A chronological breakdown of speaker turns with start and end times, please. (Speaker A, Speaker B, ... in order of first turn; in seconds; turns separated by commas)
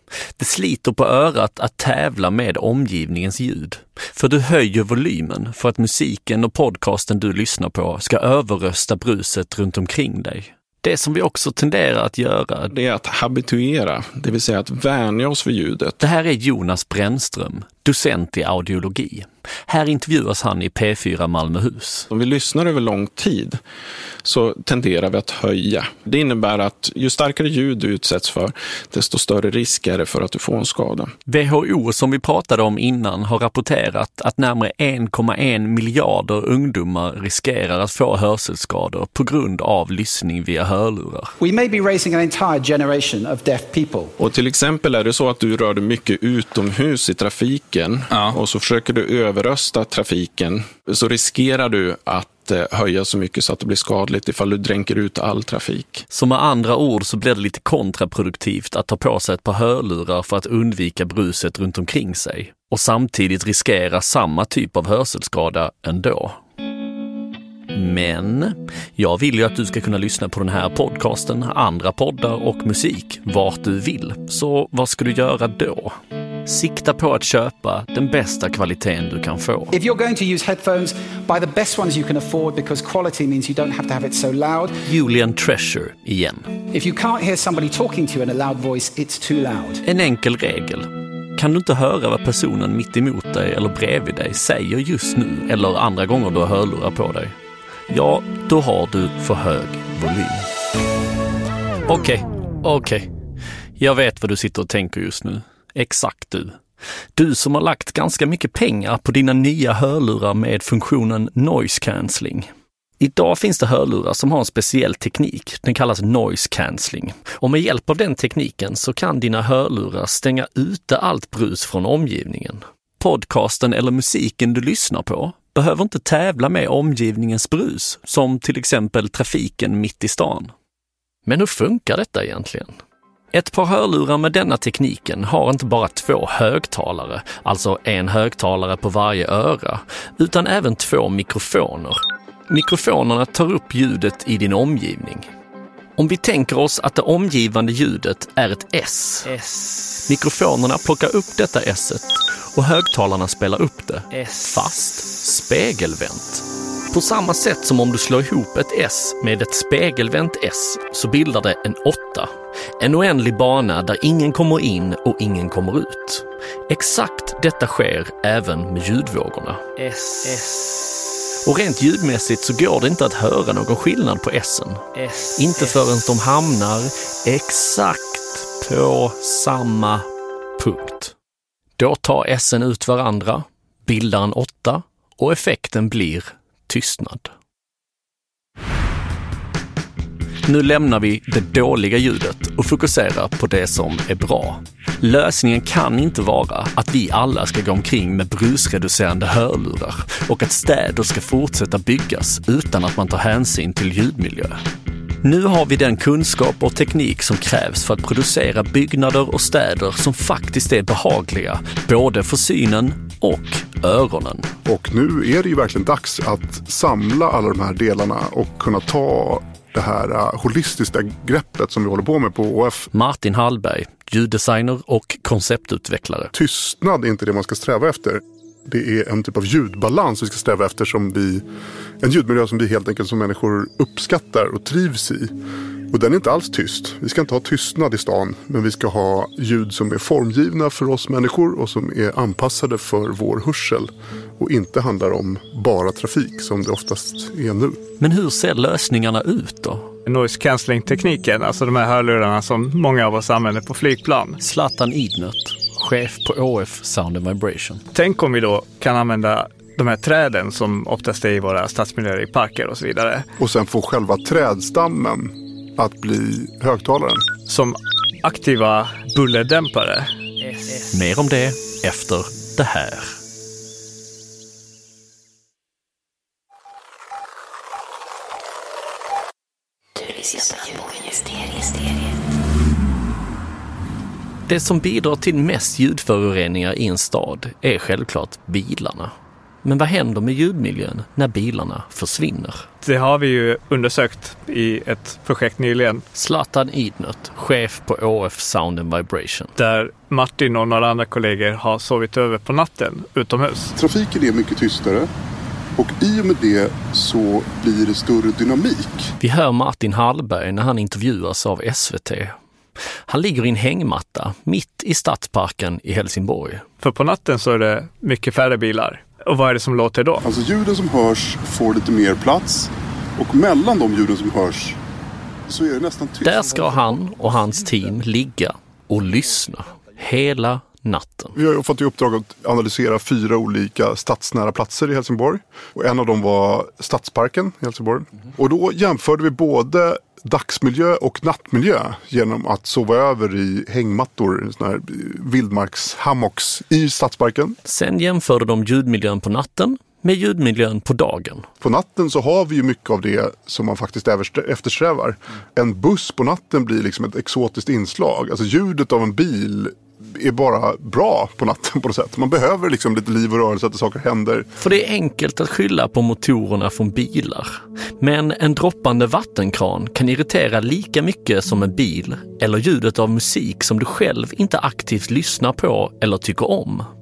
Speaker A: 0.4-12.7, Speaker B: 12.7-16.0, Speaker A: 16.0-22.1, Speaker B: 22.1-23.6, Speaker B: 24.2-31.1, Speaker A: 31.3-41.3, Speaker C: 41.4-44.1, Speaker B: 44.2-56.0, Speaker A: 56.1-66.4, Speaker A: 67.7-79.7, Speaker C: 79.7-84.8, Speaker A: 84.8-86.5, Speaker C: 86.7-89.8, Speaker A: 89.8-97.3, Speaker A: 97.9-100.5, Speaker A: 101.9-103.1, Speaker A: 103.8-106.6, Speaker A: 107.2-130.5, Speaker A: 131.2-132.7, Speaker A: 133.3-145.3, Speaker A: 146.0-149.4, Speaker A: 150.0-170.7, Speaker A: 171.4-180.1, Speaker A: 180.6-181.1, Speaker A: 181.8-187.3, Speaker A: 190.5-204.6, Speaker A: 205.2-214.5, Speaker D: 214.7-222.9, Speaker A: 222.9-226.3, Speaker D: 226.3-231.4, Speaker D: 232.0-235.3, Speaker D: 235.9-247.8, Speaker A: 248.0-249.9, Speaker E: 250.1-254.4, Speaker A: 254.4-257.8, Speaker E: 257.9-263.2, Speaker D: 263.4-267.3, Speaker E: 267.5-270.1, Speaker A: 270.9-273.2, Speaker A: 284.5-289.1, Speaker A: 289.6-292.7, Speaker E: 292.8-296.0, Speaker A: 296.1-299.5, Speaker E: 299.6-303.7, Speaker D: 303.8-305.1, Speaker D: 305.8-309.1, Speaker A: 309.2-312.4, Speaker A: 313.1-316.6, Speaker E: 316.8-320.2, Speaker D: 320.2-324.8, Speaker D: 325.5-327.0, Speaker A: 326.2-331.4, Speaker D: 331.4-347.6, Speaker A: 347.6-351.5, Speaker D: 351.6-364.5, Speaker A: 364.6-376.9